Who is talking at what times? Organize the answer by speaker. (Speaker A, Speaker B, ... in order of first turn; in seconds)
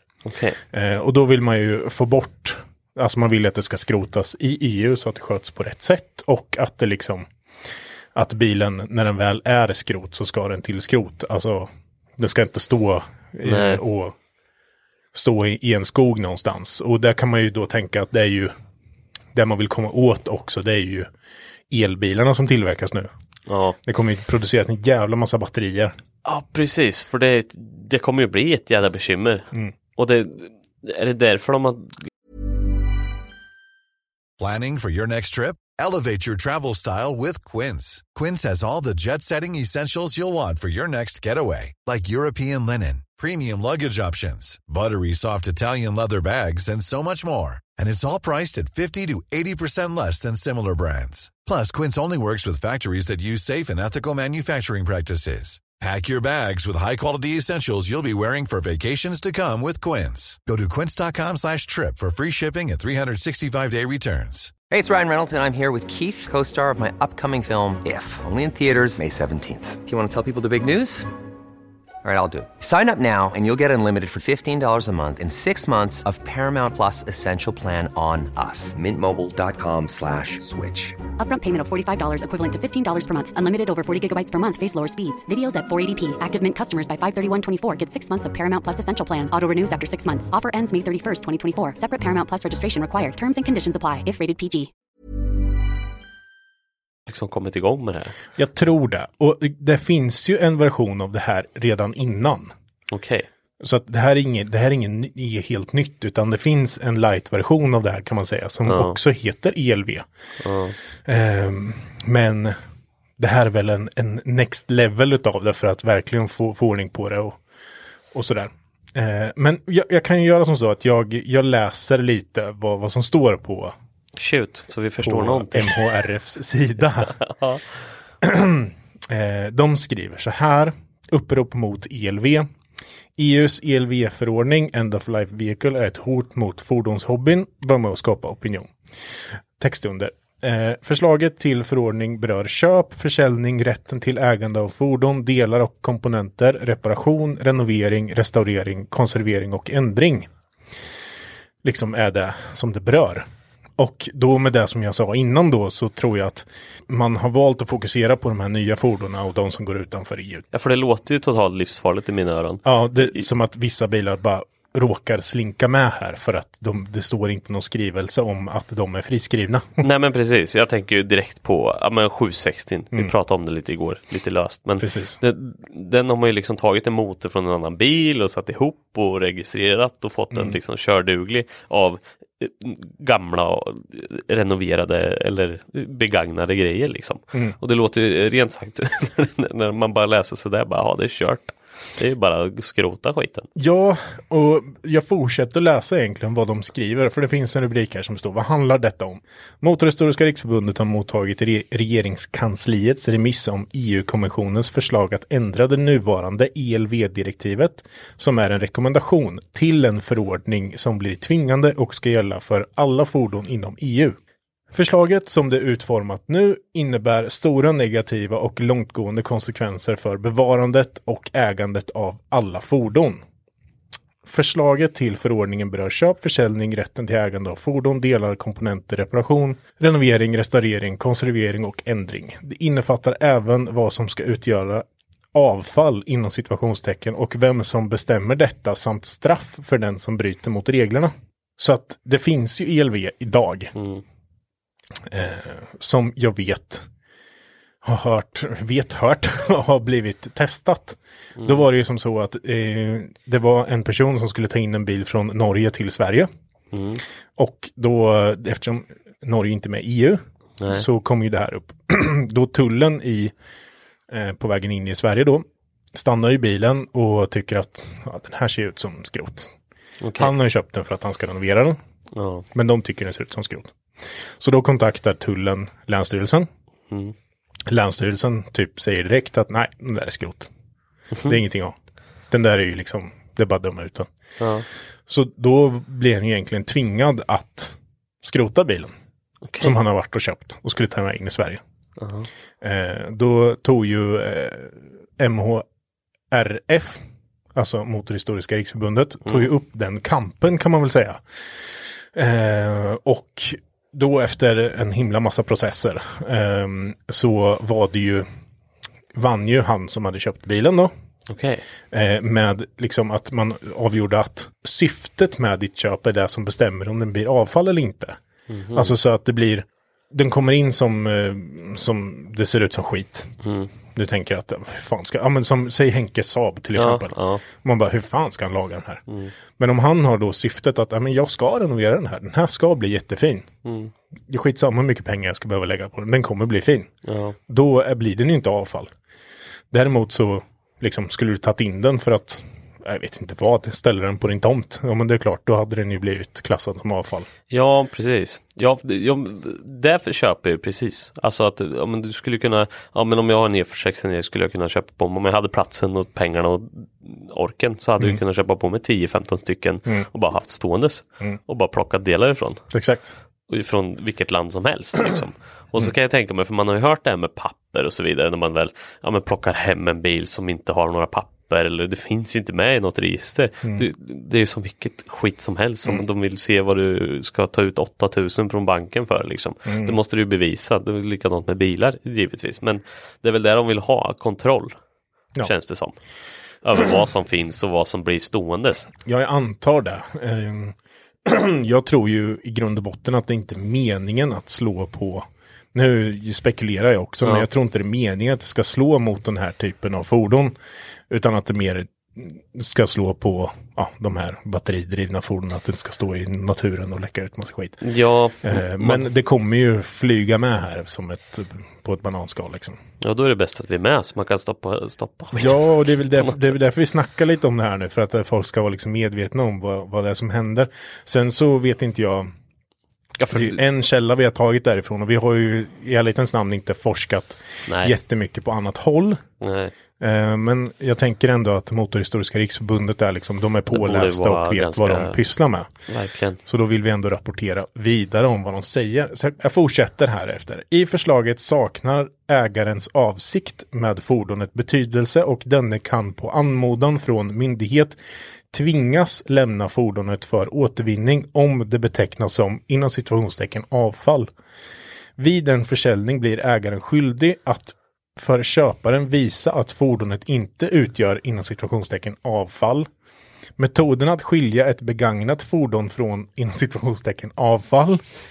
Speaker A: 0.2-0.6, 13.4-13.8, 23.5-23.8, 26.2-32.1, 97.1-98.2, 102.9-103.3, 108.7-109.0, 110.4-110.8, 124.2-125.9, 127.0-127.6, 160.5-163.2, 169.8-193.5, 243.8-244.0, 251.4-251.6, 256.7-257.0, 260.6-260.9, 270.0-270.3, 272.1-272.4, 284.4-284.7, 289.5-289.8, 292.0-292.3, 311.3-311.6, 318.5-318.9, 323.4-323.7, 326.8-327.4, 333.6-333.9, 337.1-337.4, 347.5-362.6, 363.5-384.7, 385.4-386.0, 386.6-388.9, 407.8-409.1, 413.0-416.5, 423.2-423.6, 427.7-427.9, 429.4-429.7, 433.7-435.2, 435.9-436.4
Speaker B: 0.7-7.3, 8.1-14.2, 15.1-18.5, 19.3-21.1, 21.7-23.1, 23.8-25.9, 98.3-102.5, 103.6-110.1, 111.0-112.6, 113.2-117.4, 118.1-123.7, 125.0-127.2, 128.2-132.5, 133.2-138.7, 139.6-150.3, 151.6-153.2, 153.8-160.4, 162.6-169.8, 174.8-175.2, 193.6-214.2, 214.7-223.2, 224.2-243.7, 245.1-246.9, 247.8-256.3, 257.4-263.3, 264.1-269.5, 270.2-271.8, 272.5-276.5, 277.7-280.5, 281.2-281.8, 282.3-284.1, 285.1-288.9, 289.6-291.6, 292.6-295.6, 296.3-297.0, 297.5-308.2, 309.1-310.9, 311.9-318.2, 318.7-323.4, 323.9-329.0, 329.6-333.5, 334.3-336.9, 337.5-338.9, 339.7-347.3, 362.7-363.2, 379.7-380.0, 389.0-400.5, 401.1-407.8, 408.4-412.8, 415.3-422.3, 423.3-429.2, 430.0-435.7, 436.4-448.0, 448.5-454.3, 455.2-462.9, 463.6-468.0
Speaker C: 34.4-64.6
Speaker D: 64.7-71.1, 72.0-81.0
Speaker E: 81.2-94.7